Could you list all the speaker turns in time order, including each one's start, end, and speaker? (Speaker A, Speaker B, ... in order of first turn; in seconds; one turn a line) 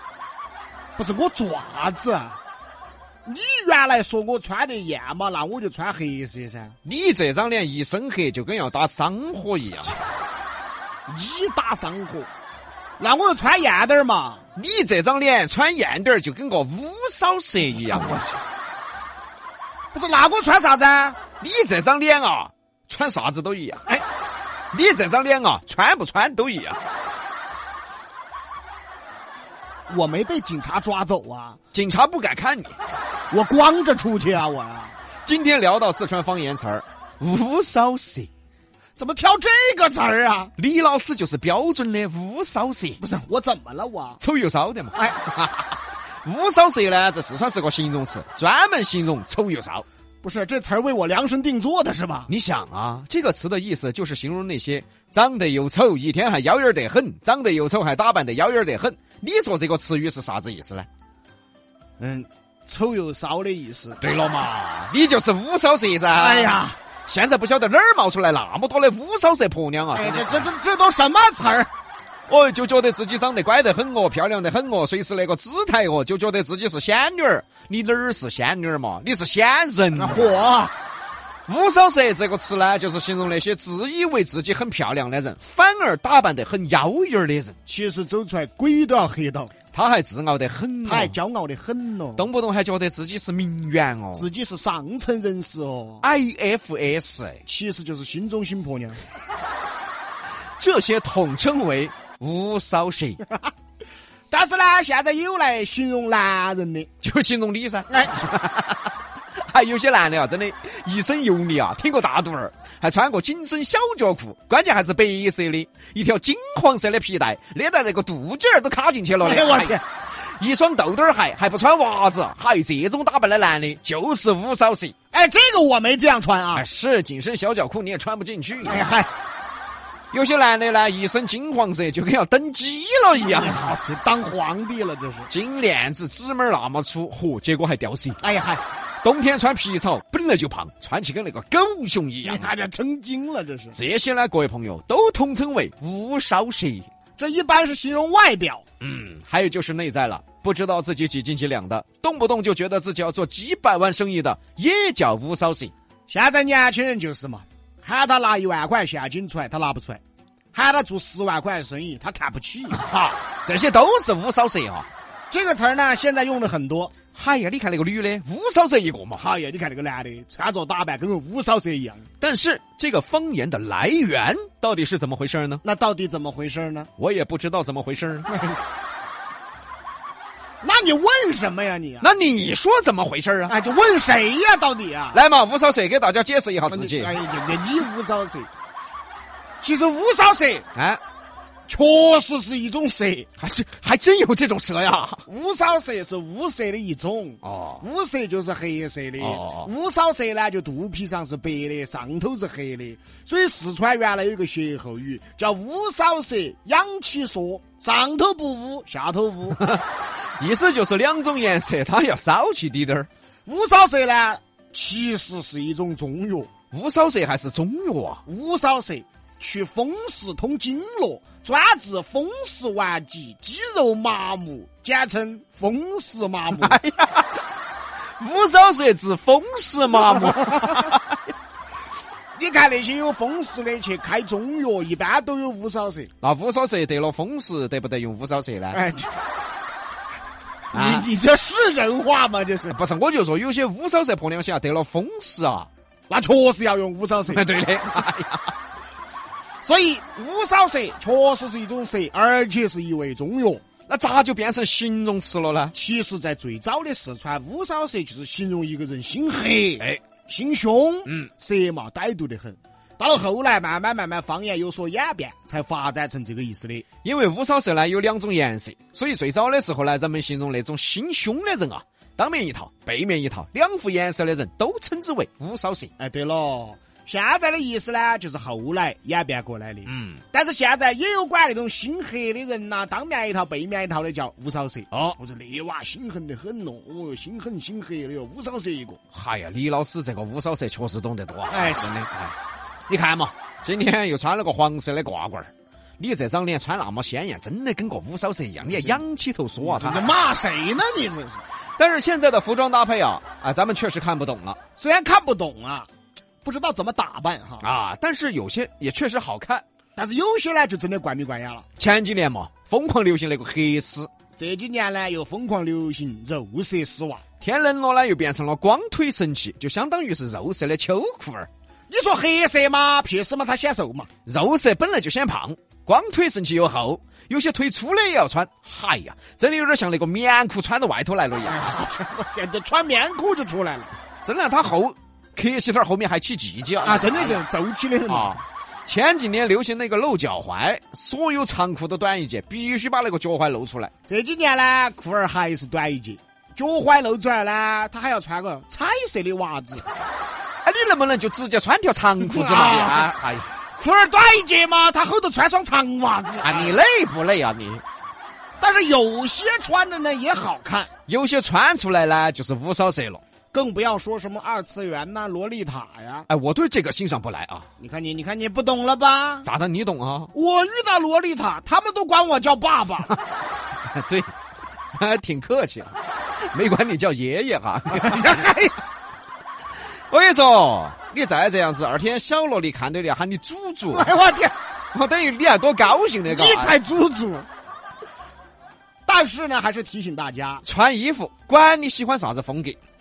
Speaker A: 1.0-2.4
Speaker A: 3.2-6.8
Speaker B: 6.8-9.9
Speaker A: 11.1-12.3
Speaker A: 13.0-14.4
Speaker B: 14.6-18.3
Speaker A: 19.9-21.2
Speaker B: 21.4-24.0
Speaker B: 24.7-26.8
Speaker A: 29.9-31.6
Speaker B: 31.7-32.8
Speaker A: 33.3-35.0
Speaker B: 35.2-38.3
Speaker A: 39.0-40.5
Speaker B: 40.6-43.0
Speaker A: 43.0-44.2
Speaker B: 44.2-49.9
Speaker A: 50.2-52.3
Speaker B: 52.3-60.9
Speaker A: 62.0-64.0
Speaker B: 64.0-70.5
Speaker A: 66.1-66.8
Speaker A: 69.9-71.7
Speaker B: 72.3-80.3
Speaker A: 80.0-80.7
Speaker B: 81.5-87.6
Speaker A: 87.7-89.5
Speaker B: 89.7-91.2
Speaker A: 90.8-92.3
Speaker B: 92.2-94.3
Speaker A: 94.1-96.1
Speaker B: 96.0-97.4
Speaker A: 97.5-99.0
Speaker B: 100.6-103.2
Speaker A: 104.3-106.9
Speaker B: 107.0-119.8
Speaker A: 107.9-108.2
Speaker A: 119.2-119.8
Speaker B: 120.4-125.0
Speaker A: 125.1-126.7
Speaker B: 126.5-128.9
Speaker A: 128.6-129.1
Speaker B: 130.1-133.7
Speaker A: 133.2-135.3
Speaker B: 135.3-138.2
Speaker A: 138.2-138.6
Speaker B: 139.0-142.5
Speaker A: 142.2-143.8
Speaker B: 143.8-146.9
Speaker A: 147.2-148.6
Speaker B: 148.8-155.7
Speaker A: 156.1-160.0
Speaker A: 160.5-162.8
Speaker B: 162.7-164.9
Speaker A: 165.3-167.1
Speaker B: 167.1-169.3
Speaker A: 169.2-172.1
Speaker B: 172.2-175.6
Speaker A: 175.6-176.9
Speaker B: 177.0-178.3
Speaker A: 178.3-178.6
Speaker A: 180.6-182.1
Speaker B: 182.0-183.6
Speaker A: 183.5-185.2
Speaker B: 185.1-187.2
Speaker A: 186.7-188.5
Speaker A: 189.6-190.7
Speaker B: 190.8-191.0
Speaker A: 191.7-193.3
Speaker B: 193.4-195.2
Speaker A: 195.3-209.7
Speaker B: 197.4-197.8
Speaker B: 199.2-199.7
Speaker B: 209.6-213.1
Speaker A: 213.5-216.5
Speaker B: 216.7-218.2
Speaker A: 218.3-226.8
Speaker B: 226.5-227.4
Speaker B: 228.2-231.1
Speaker A: 230.4-230.8
Speaker A: 232.4-236.1
Speaker B: 236.2-238.9
Speaker A: 238.7-239.1
Speaker B: 240.7-241.1
Speaker A: 240.7-242.8
Speaker B: 242.7-245.7
Speaker A: 246.1-247.6
Speaker B: 247.3-248.5
Speaker A: 249.6-253.7
Speaker B: 253.9-255.7
Speaker A: 255.7-266.9
Speaker B: 259.8-260.1
Speaker B: 261.1-261.3
Speaker B: 267.0-275.9
Speaker A: 276.0-289.0
Speaker B: 279.9-280.2
Speaker B: 289.1-292.4
Speaker A: 291.5-291.9
Speaker B: 292.9-300.1
Speaker A: 298.6-299.0
Speaker A: 299.6-301.4
Speaker B: 301.8-304.6
Speaker A: 304.8-305.9
Speaker A: 306.4-307.7
Speaker B: 307.6-309.6
Speaker A: 310.0-311.7
Speaker B: 311.8-314.1
Speaker A: 314.4-317.2
Speaker B: 317.4-321.5
Speaker A: 321.9-324.1
Speaker B: 324.2-331.6
Speaker A: 331.4-333.9
Speaker B: 334.2-337.5
Speaker A: 336.8-338.4
Speaker B: 338.1-343.9
Speaker A: 344.1-349.9
Speaker B: 350.6-353.5
Speaker A: 352.2-353.1
Speaker A: 353.8-356.8
Speaker B: 356.4-357.8
Speaker A: 358.6-360.9
Speaker B: 361.1-363.2
Speaker A: 363.5-366.3
Speaker B: 366.3-367.7
Speaker A: 367.8-369.5
Speaker B: 369.4-370.3
Speaker A: 370.3-373.2
Speaker B: 373.9-374.3
Speaker B: 374.9-378.6
Speaker A: 377.9-378.8
Speaker B: 380.1-384.2
Speaker A: 383.9-384.6
Speaker B: 384.9-386.8
Speaker A: 386.3-387.5
Speaker A: 389.1-390.6
Speaker B: 390.6-392.8